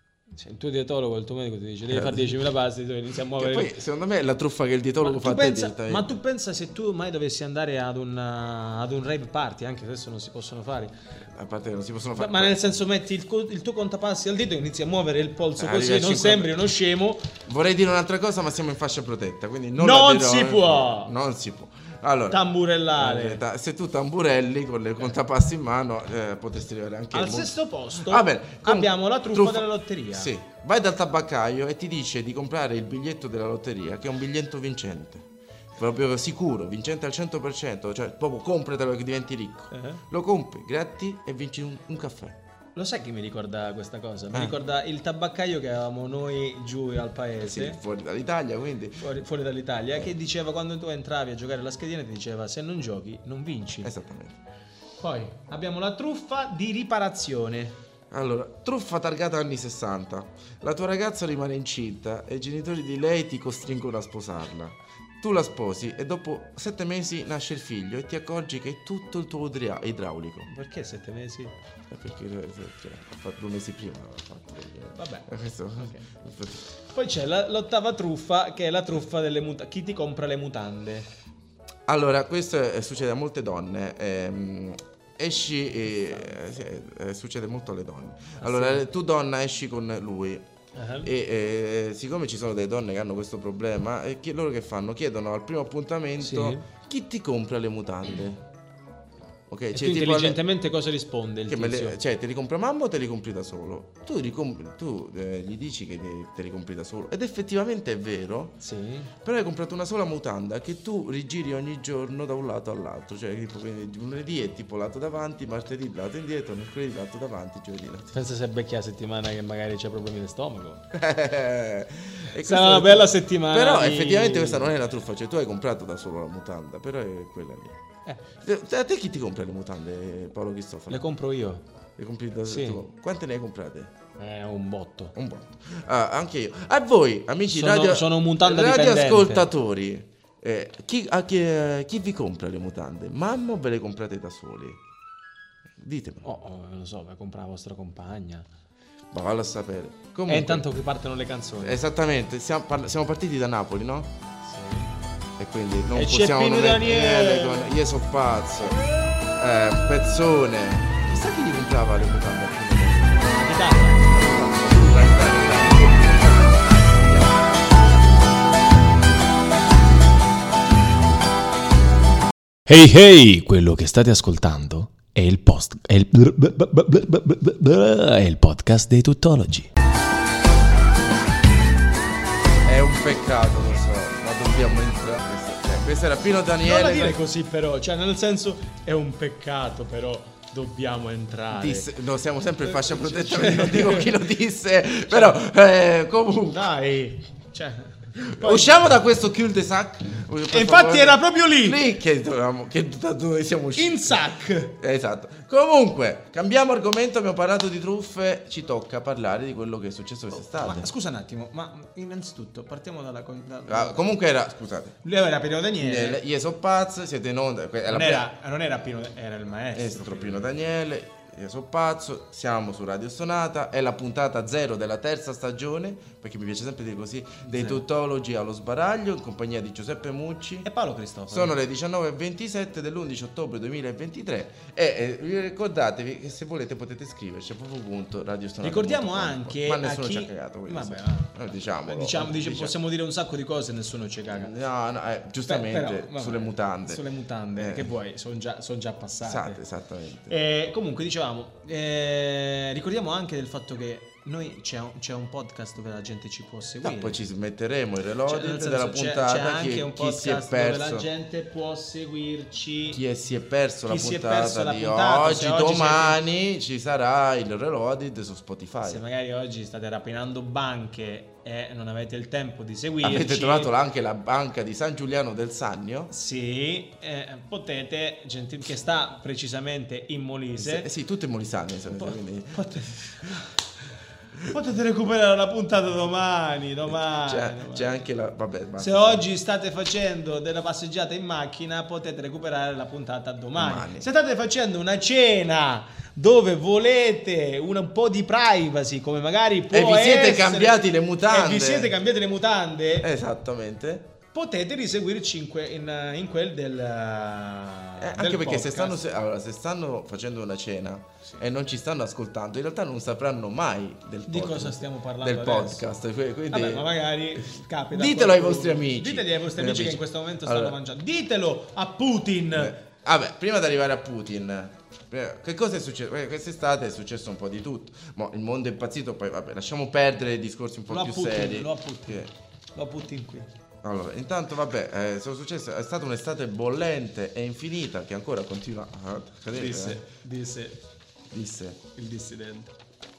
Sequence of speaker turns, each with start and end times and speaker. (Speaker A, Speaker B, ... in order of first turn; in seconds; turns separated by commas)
Speaker A: 0.3-3.7, Speaker B: 1.9-2.4, Speaker B: 3.4-6.2, Speaker A: 5.0-10.9, Speaker B: 11.2-12.8, Speaker A: 12.2-17.3, Speaker B: 15.6-16.6, Speaker B: 17.5-22.4, Speaker A: 19.8-21.1, Speaker A: 22.3-23.4, Speaker B: 22.9-42.4, Speaker A: 27.1-30.3, Speaker A: 39.7-40.0, Speaker A: 42.8-47.8, Speaker B: 47.4-49.1, Speaker A: 49.0-53.9, Speaker B: 53.8-54.4, Speaker A: 55.0-57.8, Speaker B: 58.1-70.5, Speaker A: 70.5-71.5, Speaker B: 71.9-76.7, Speaker A: 74.9-76.0, Speaker A: 76.8-81.1, Speaker B: 81.9-90.5, Speaker A: 88.4-88.8, Speaker A: 90.8-91.1, Speaker B: 91.0-98.4, Speaker A: 96.2-96.7, Speaker B: 99.5-100.4, Speaker A: 99.7-102.0, Speaker B: 101.5-108.6, Speaker A: 108.6-109.1, Speaker B: 109.2-118.1, Speaker A: 118.1-120.8, Speaker B: 120.9-127.8, Speaker A: 122.4-124.7, Speaker B: 128.4-131.0, Speaker A: 130.9-131.6, Speaker B: 132.0-133.9, Speaker A: 132.5-132.8, Speaker A: 134.2-135.1, Speaker B: 135.2-144.8, Speaker A: 137.5-139.5, Speaker B: 145.8-146.3, Speaker A: 146.2-148.5, Speaker B: 149.1-150.7, Speaker A: 150.3-151.8, Speaker B: 151.6-154.1, Speaker A: 154.4-154.9, Speaker B: 155.4-158.8, Speaker A: 155.9-157.7, Speaker B: 159.4-167.8, Speaker A: 163.3-164.2, Speaker C: 172.7-179.7, Speaker B: 182.7-187.2, Speaker A: 186.6-191.9, Speaker B: 191.5-196.7, Speaker A: 192.7-194.3, Speaker A: 195.1-195.4, Speaker A: 196.5-198.9, Speaker B: 198.2-204.2, Speaker A: 200.5-201.8, Speaker A: 203.8-204.8, Speaker B: 204.8-210.9, Speaker A: 210.3-214.1, Speaker B: 213.7-215.0, Speaker A: 215.0-216.2, Speaker B: 215.8-218.3, Speaker A: 217.9-220.5, Speaker B: 219.7-230.7, Speaker A: 227.4-227.8, Speaker A: 230.6-231.6, Speaker B: 231.3-242.8, Speaker A: 238.6-244.5, Speaker B: 244.3-247.0, Speaker A: 245.5-249.6, Speaker B: 247.6-247.9, Speaker B: 249.2-250.3, Speaker A: 250.3-257.2, Speaker B: 256.8-261.1, Speaker A: 258.3-263.0, Speaker B: 262.9-269.0, Speaker A: 263.9-266.2, Speaker A: 268.8-273.7, Speaker B: 273.0-276.1, Speaker A: 276.1-280.9, Speaker B: 280.6-283.4, Speaker A: 282.0-283.6, Speaker A: 284.4-288.0, Speaker B: 286.9-289.2, Speaker A: 288.8-303.1, Speaker B: 293.6-294.1, Speaker B: 299.7-301.9, Speaker B: 303.0-304.1, Speaker A: 304.3-309.0, Speaker B: 308.0-317.4, Speaker A: 314.3-315.8, Speaker A: 316.5-322.8, Speaker B: 317.9-320.8, Speaker B: 322.5-332.3, Speaker A: 330.9-333.5, Speaker B: 333.8-340.0, Speaker A: 339.5-340.8, Speaker B: 341.3-341.8, Speaker A: 341.9-342.7